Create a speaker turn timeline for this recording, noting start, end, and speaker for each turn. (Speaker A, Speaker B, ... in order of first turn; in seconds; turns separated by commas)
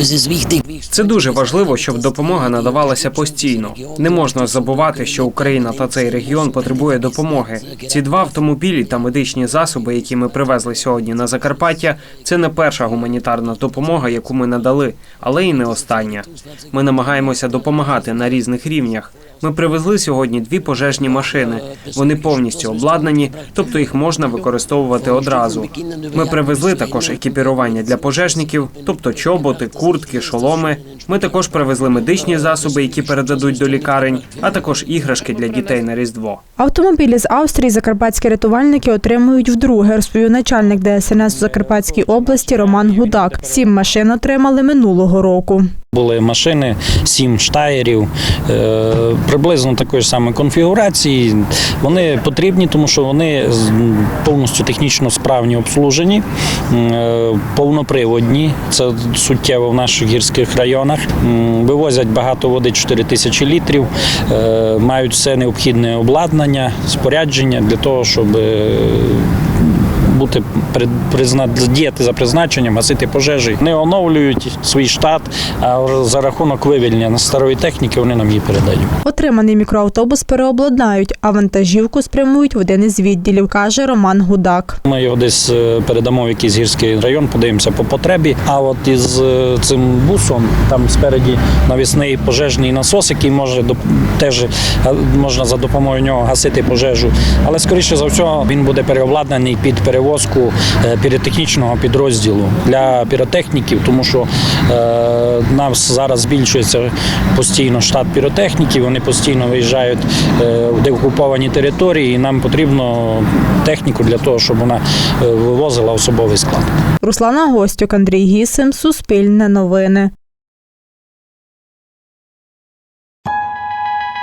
Speaker A: 0.9-36.4, Speaker B: 36.6-45.7, Speaker C: 45.9-78.9, Speaker B: 79.0-84.8, Speaker C: 84.8-116.7, Speaker B: 117.0-120.1